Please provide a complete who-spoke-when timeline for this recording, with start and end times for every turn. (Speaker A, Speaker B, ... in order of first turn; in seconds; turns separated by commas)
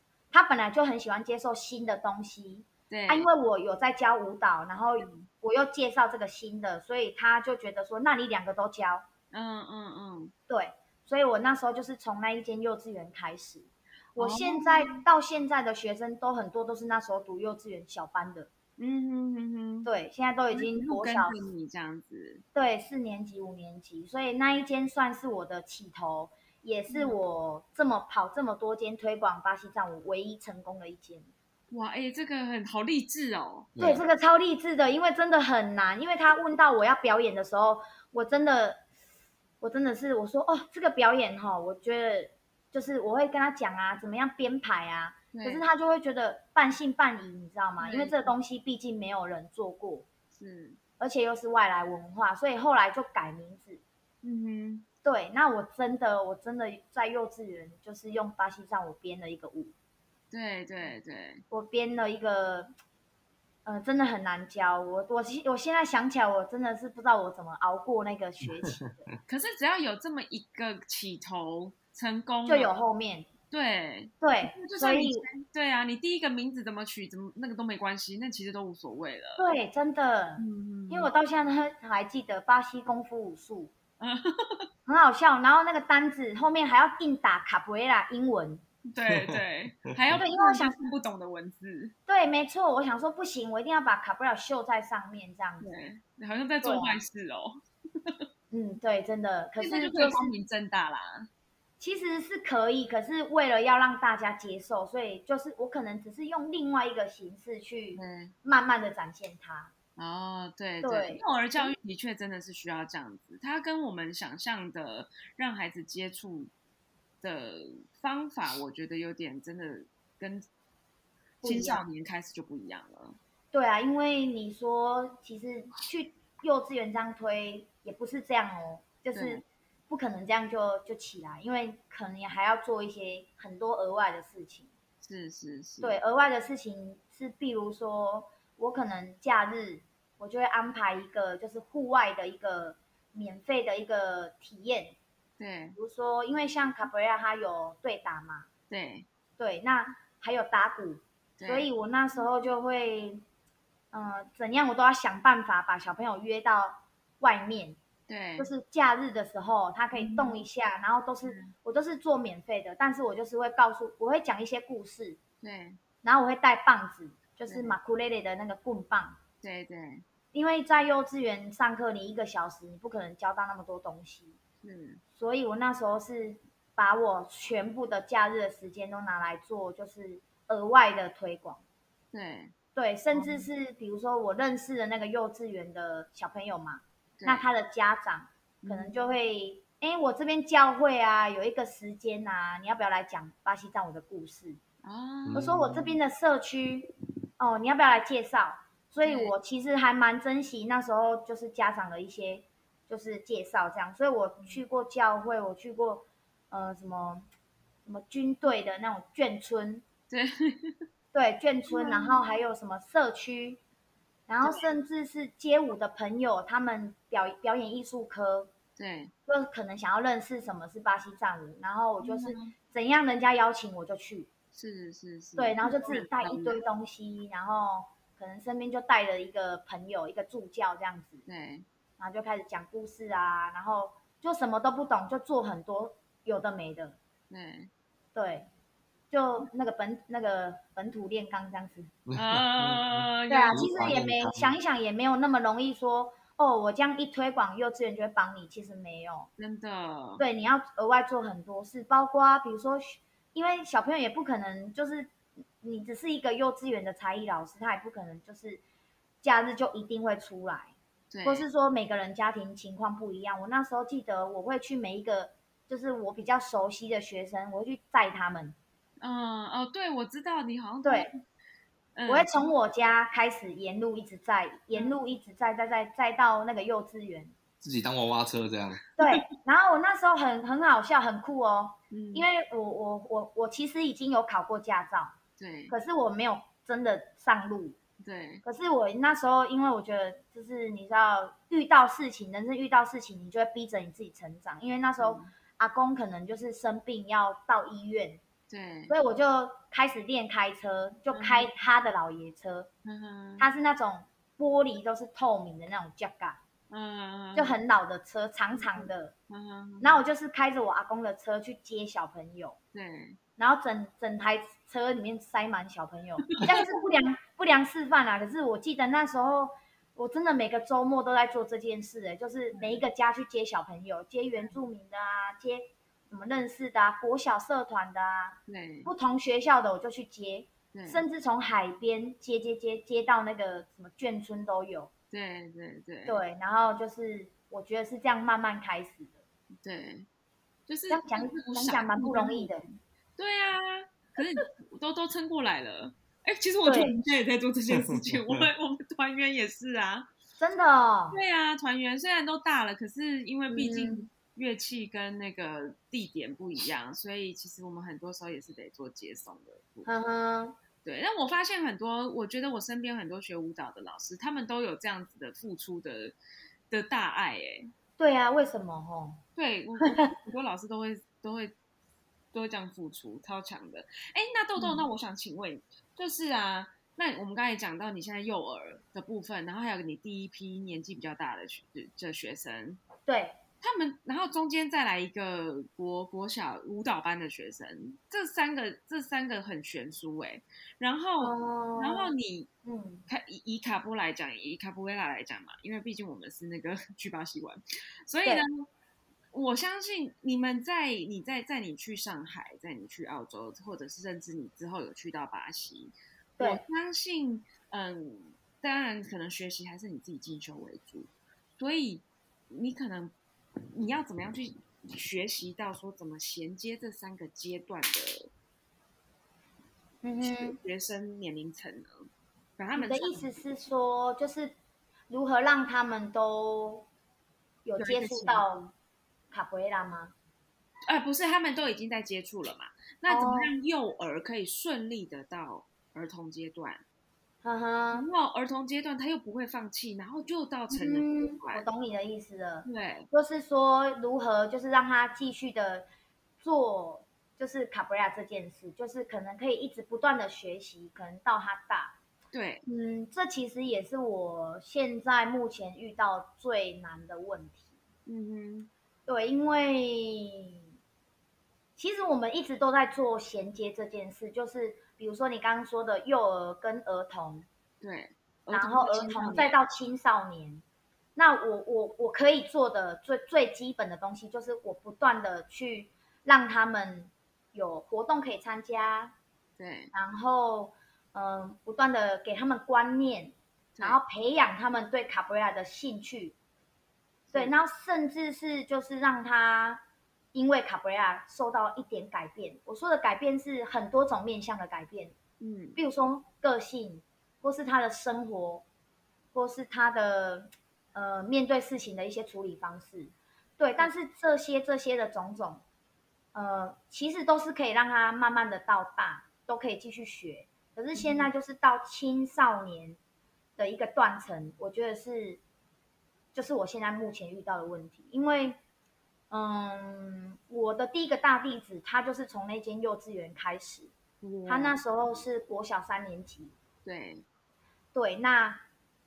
Speaker A: 0.3-9.0, Speaker B: 2.9-3.3, Speaker B: 5.0-5.2, Speaker B: 9.3-10.3, Speaker A: 10.5-18.5, Speaker B: 14.2-15.0, Speaker B: 18.8-19.9, Speaker A: 19.8-21.4, Speaker B: 20.5-22.4, Speaker A: 22.5-31.3, Speaker B: 26.9-27.2, Speaker B: 31.7-33.8, Speaker C: 33.8-34.0, Speaker A: 33.8-38.8, Speaker A: 39.6-50.0, Speaker B: 45.3-45.6, Speaker B: 47.8-48.3, Speaker B: 50.3-50.8, Speaker A: 51.0-53.8, Speaker B: 54.2-54.9, Speaker A: 55.0-59.7, Speaker B: 60.3-61.4, Speaker A: 61.5-62.7, Speaker A: 63.6-69.1, Speaker B: 69.3-72.7, Speaker A: 72.5-73.3, Speaker B: 73.5-79.4, Speaker A: 74.2-75.3, Speaker A: 79.4-83.7, Speaker B: 80.4-81.1, Speaker B: 84.0-84.7, Speaker A: 84.9-88.6, Speaker B: 88.9-91.9, Speaker C: 89.1-89.4, Speaker A: 90.1-90.8, Speaker A: 92.1-95.7, Speaker B: 95.6-98.2, Speaker A: 96.6-97.0, Speaker A: 98.5-100.3, Speaker B: 99.6-101.3, Speaker A: 101.8-109.7, Speaker B: 108.0-108.3, Speaker B: 110.0-116.5, Speaker A: 110.8-111.7, Speaker B: 117.2-120.4, Speaker A: 121.4-121.8, Speaker B: 121.4-123.2, Speaker A: 123.5-134.7, Speaker B: 129.1-129.4, Speaker B: 135.0-136.0, Speaker A: 135.8-144.9, Speaker B: 145.4-145.8, Speaker A: 145.7-148.5, Speaker B: 148.7-149.1, Speaker A: 149.4-153.2, Speaker B: 151.4-151.7, Speaker A: 153.9-157.8, Speaker B: 158.1-158.5, Speaker A: 158.4-165.2, Speaker B: 159.9-160.4, Speaker B: 161.2-161.5, Speaker B: 165.4-165.8, Speaker A: 166.0-169.2, Speaker B: 167.5-167.7, Speaker B: 169.4-170.0, Speaker A: 170.3-174.3, Speaker B: 174.6-175.0, Speaker A: 175.1-181.6, Speaker B: 182.1-182.5, Speaker A: 182.7-194.6, Speaker B: 183.1-183.5, Speaker B: 187.2-187.5, Speaker B: 188.6-189.0, Speaker B: 194.8-195.8, Speaker C: 195.2-195.8, Speaker A: 195.3-207.2, Speaker B: 199.0-199.3, Speaker A: 207.8-209.8, Speaker B: 210.1-210.8, Speaker A: 211.1-213.6, Speaker B: 211.7-212.2, Speaker A: 214.3-218.5, Speaker B: 214.4-214.7, Speaker B: 218.8-219.1, Speaker A: 219.3-224.3, Speaker B: 222.0-222.5, Speaker B: 224.5-226.6, Speaker A: 225.4-231.2, Speaker B: 231.3-231.7, Speaker A: 232.0-237.0, Speaker B: 237.3-237.7, Speaker A: 238.1-238.5, Speaker A: 239.1-241.9, Speaker C: 242.1-244.5, Speaker B: 242.1-243.7, Speaker A: 243.3-249.3, Speaker B: 249.4-250.2, Speaker A: 250.2-258.6, Speaker A: 259.2-260.7, Speaker B: 261.1-261.5, Speaker A: 261.2-268.6, Speaker B: 269.0-271.1, Speaker A: 270.8-271.1, Speaker B: 271.9-272.4, Speaker A: 272.1-277.3, Speaker C: 277.6-278.8, Speaker A: 279.0-285.1, Speaker B: 281.9-282.3, Speaker B: 285.4-285.7, Speaker A: 285.7-287.8, Speaker B: 288.0-288.4, Speaker A: 288.4-298.2, Speaker B: 295.0-295.3, Speaker B: 298.5-298.9, Speaker A: 298.9-302.7, Speaker B: 301.1-301.5, Speaker B: 302.8-303.4, Speaker A: 303.4-306.4, Speaker B: 306.7-307.6, Speaker A: 307.3-309.1, Speaker B: 308.6-310.0, Speaker A: 309.8-312.6, Speaker B: 312.7-313.2, Speaker A: 313.4-334.9, Speaker B: 316.3-316.7, Speaker B: 322.5-322.8, Speaker B: 328.5-328.9, Speaker B: 330.7-331.0, Speaker B: 335.1-336.2, Speaker A: 336.1-339.2, Speaker B: 339.6-340.1, Speaker B: 340.7-350.1, Speaker A: 340.9-342.6, Speaker A: 346.6-346.9, Speaker C: 347.8-348.4, Speaker A: 350.4-351.2, Speaker B: 351.1-359.9, Speaker A: 353.5-354.1, Speaker A: 359.9-360.6, Speaker B: 360.8-366.1, Speaker B: 366.7-367.7, Speaker A: 368.0-369.2, Speaker B: 369.4-371.5, Speaker A: 369.8-370.1, Speaker B: 372.3-382.8, Speaker A: 374.6-374.8, Speaker A: 383.1-383.4, Speaker B: 383.6-392.5, Speaker A: 391.2-392.1, Speaker A: 392.6-393.1, Speaker B: 393.1-398.7, Speaker B: 399.3-418.3, Speaker A: 420.0-420.6, Speaker B: 420.2-423.3, Speaker A: 422.8-424.5, Speaker A: 425.1-426.9, Speaker A: 427.6-428.7, Speaker B: 427.8-428.5, Speaker A: 429.3-430.1, Speaker B: 430.9-436.8, Speaker A: 433.1-433.5, Speaker A: 437.4-438.1, Speaker B: 437.9-441.6, Speaker A: 440.7-445.9, Speaker B: 442.6-443.1, Speaker A: 446.4-451.9, Speaker B: 452.3-452.6, Speaker A: 452.6-457.7, Speaker B: 458.1-458.7, Speaker A: 459.1-460.6, Speaker A: 461.8-467.5, Speaker B: 467.8-469.5, Speaker A: 468.5-470.6, Speaker A: 471.1-479.1, Speaker B: 479.6-479.9, Speaker A: 479.9-486.4, Speaker B: 487.3-487.5, Speaker A: 487.3-489.8, Speaker A: 490.3-495.1, Speaker B: 495.4-495.8, Speaker A: 495.8-498.6, Speaker A: 499.3-505.6, Speaker A: 506.3-513.0, Speaker B: 510.9-511.3, Speaker A: 513.6-515.4, Speaker A: 516.3-518.6, Speaker A: 519.3-523.9, Speaker B: 524.2-524.8, Speaker A: 524.5-526.5, Speaker B: 526.8-527.2, Speaker A: 527.9-528.6